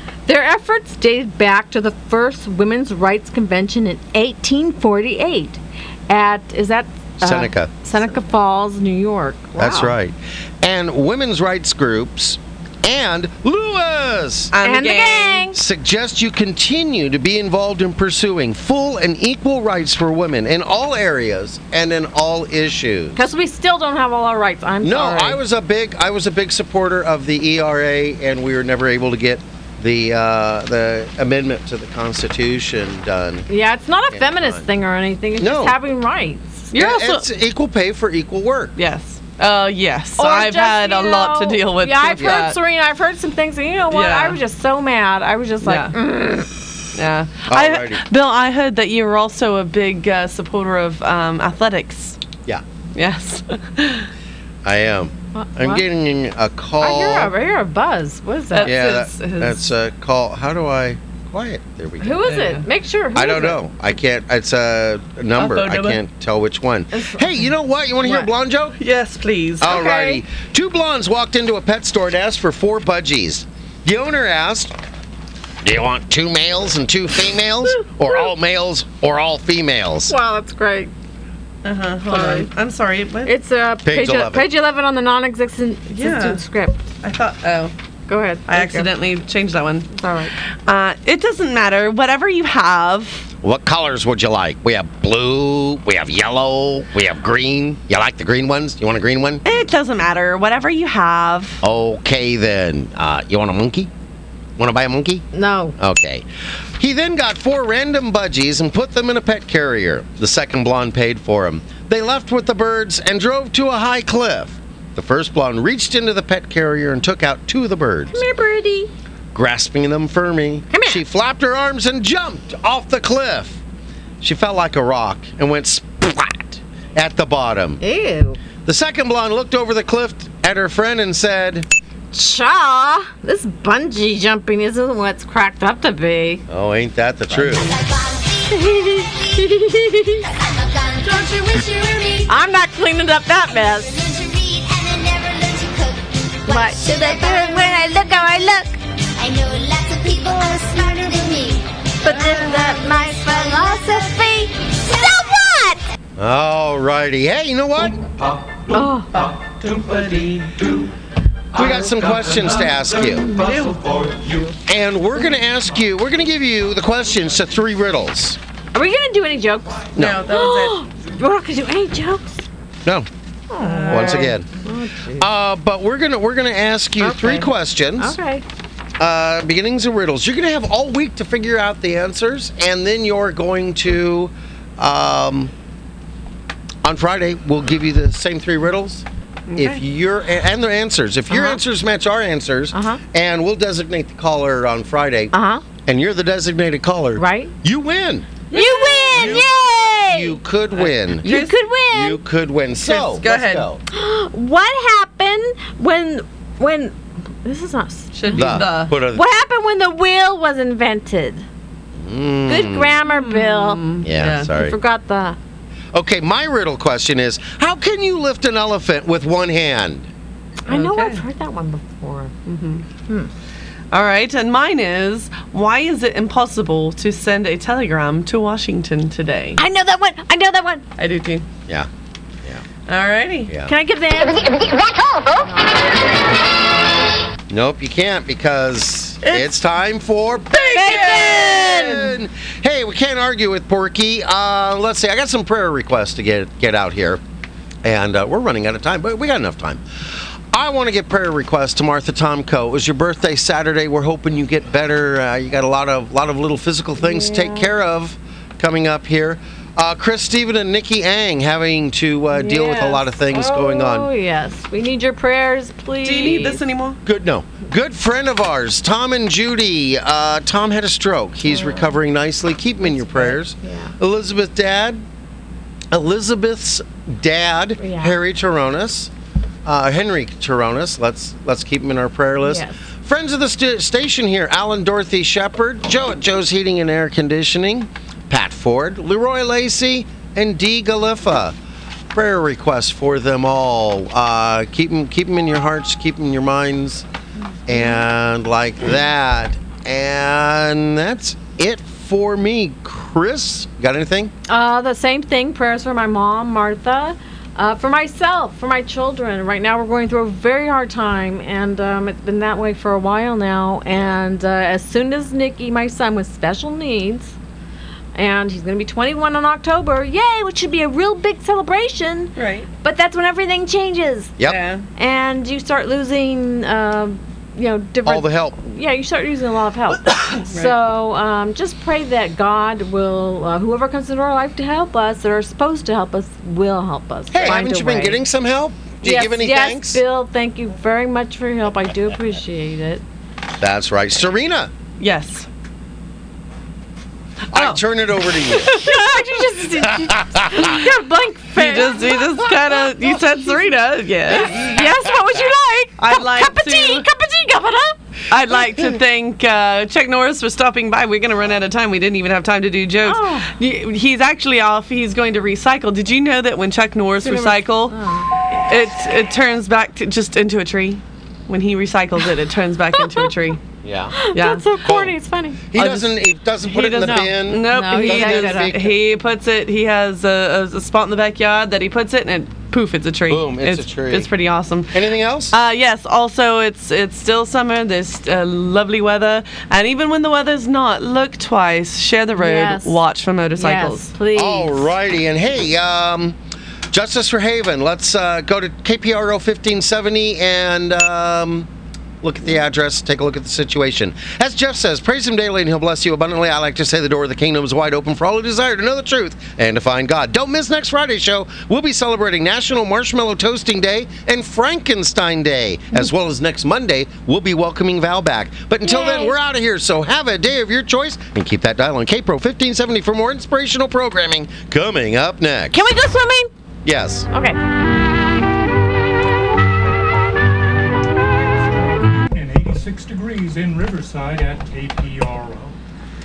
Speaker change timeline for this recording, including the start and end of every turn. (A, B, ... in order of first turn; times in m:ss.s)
0:00.2-0:09.9 A
0:07.2-0:07.7 B
0:09.6-0:14.5 B
0:14.5-0:15.5 C
0:14.6-0:15.6 A
0:15.5-0:23.2 B
0:23.2-0:25.4 A
0:24.8-0:33.5 B
0:33.5-0:36.7 A
0:34.1-0:34.6 B
0:35.4-0:35.8 B
0:36.7-0:37.2 C
0:36.7-0:38.7 B
0:38.8-0:42.6 C
0:40.2-0:46.5 A
0:43.9-0:44.4 C
0:45.6-0:45.9 C
0:46.9-0:52.2 C
0:47.4-0:48.0 B
0:52.9-0:54.1 C
0:54.6-0:57.3 B
0:55.3-0:55.8 A
0:56.8-0:58.8 A
0:58.5-0:59.6 C
0:58.6-1:02.3 B
1:02.0-1:03.6 A
1:02.2-1:02.6 C
1:03.1-1:08.8 B
1:05.3-1:06.0 C
1:06.9-1:07.5 A
1:08.0-1:08.3 A
1:08.8-1:09.8 C
1:09.6-1:14.7 B
1:09.7-1:10.2 A
1:15.6-1:20.1 B
1:20.1-1:20.9 A
1:21.6-1:23.3 C
1:22.1-1:22.5 A
1:23.2-1:26.8 A
1:23.8-1:24.4 B
1:25.9-1:26.4 C
1:27.0-1:27.7 C
1:28.1-1:28.9 A
1:28.5-1:29.9 C
1:29.9-1:30.3 A
1:30.6-1:33.2 C
1:33.4-1:39.4 B
1:39.4-1:41.6 C
1:41.6-1:43.9 B
1:44.6-1:45.2 B
1:45.3-1:45.8 A
1:45.8-1:46.2 B
1:46.8-1:58.2 B
1:58.1-1:58.9 A
1:59.3-2:03.6 B
2:00.7-2:01.0 A
2:04.2-2:07.8 B
2:07.8-2:08.4 A
2:08.6-2:11.7 B
2:12.1-2:16.4 A
2:16.5-2:17.7 B
2:17.6-2:18.6 D
2:18.5-2:20.2 A
2:20.2-2:22.3 D
2:22.2-2:23.9 A
2:23.8-2:28.1 D
2:26.4-2:28.8 A
2:29.2-2:34.2 D
2:32.0-2:35.8 A
2:34.8-2:35.1 D
2:36.2-2:38.1 B
2:38.7-2:39.3 A
2:39.2-2:40.6 C
2:41.5-2:43.3 B
2:43.3-2:44.3 C
2:44.7-2:48.4 B
2:48.7-2:52.4 A
2:50.0-2:50.2 B
2:50.0-2:50.8 C
2:53.5-2:55.3 A
2:53.6-2:54.4 C
2:53.9-2:54.5 B
2:55.2-2:58.1 B
2:57.0-2:58.4 A
2:59.0-3:05.5 B
3:06.8-3:09.0 B
3:09.5-3:09.8 C
3:09.6-3:21.3 B
3:11.3-3:11.6 A
3:12.7-3:13.0 A
3:15.3-3:15.6 A
3:17.2-3:17.5 A
3:18.5-3:19.4 C
3:18.5-3:20.4 A
3:20.8-3:21.6 C
3:21.2-3:22.2 A
3:21.9-3:23.8 B
3:22.8-3:23.7 C
3:23.9-3:31.4 A
3:28.1-3:28.9 C
3:28.3-3:29.2 B
3:31.9-3:32.9 B
3:32.5-3:33.9 A
3:33.0-3:34.5 C
3:34.0-3:34.7 B
3:34.5-3:35.4 A
3:35.9-3:40.1 B
3:40.7-3:42.3 A
3:40.7-3:41.2 C
3:42.4-3:42.8 C
3:43.9-3:49.6 C
3:49.6-3:50.8 A
3:51.0-3:51.5 C
3:52.9-3:53.5 C
3:53.7-3:56.3 A
3:57.5-4:07.2 B
3:59.2-3:59.5 C
4:00.5-4:02.1 C
4:00.5-4:02.2 A
4:07.8-4:09.8 B
4:10.5-4:24.1 B
4:17.0-4:17.7 A
4:22.3-4:26.6 A
4:26.0-4:27.0 C
4:27.0-4:35.0 B
4:31.4-4:31.9 A
4:32.8-4:33.9 A
4:35.9-4:39.1 B
4:37.8-4:38.2 A
4:39.6-4:51.5 B
4:42.4-4:42.7 A
4:52.1-4:57.0 B
4:57.7-5:04.3 B
4:57.7-4:58.0 A
5:04.5-5:17.3 A
5:18.1-5:24.4 A
5:22.4-5:22.7 C
5:24.4-5:24.8 C
5:25.0-5:38.2 A
5:28.0-5:28.6 B
5:30.5-5:30.7 C
5:37.3-5:40.0 B
5:39.0-5:43.0 A
5:43.6-5:44.7 B
5:45.0-5:45.5 C
5:47.5-5:47.8 C
5:47.5-5:48.8 B
5:48.5-5:49.0 C
5:48.6-5:53.6 A
5:50.1-5:50.8 B
5:51.5-5:54.5 C
5:54.3-5:58.0 A
5:54.4-5:55.1 B
5:56.0-5:57.0 C
5:58.3-6:08.0 C
6:03.0-6:03.5 A
6:07.2-6:08.3 A
6:08.6-6:13.6 C
6:13.0-6:13.3 A
6:13.8-6:14.1 B
6:14.1-6:15.7 A
6:14.3-6:14.6 C
6:14.8-6:15.1 B
6:15.7-6:18.9 B
6:15.8-6:16.1 C
6:16.7-6:34.1 C
6:17.0-6:18.8 A
6:23.3-6:24.3 B
6:24.9-6:25.5 B
6:32.4-6:33.0 A
6:33.6-6:34.9 A
6:34.3-6:36.4 B
6:36.9-6:41.7 B
6:42.2-7:05.8 B
6:58.8-6:59.4 A
7:05.7-7:06.5 A
7:06.8-7:07.3 B
7:07.3-7:07.6 A
7:11.2-7:15.8 E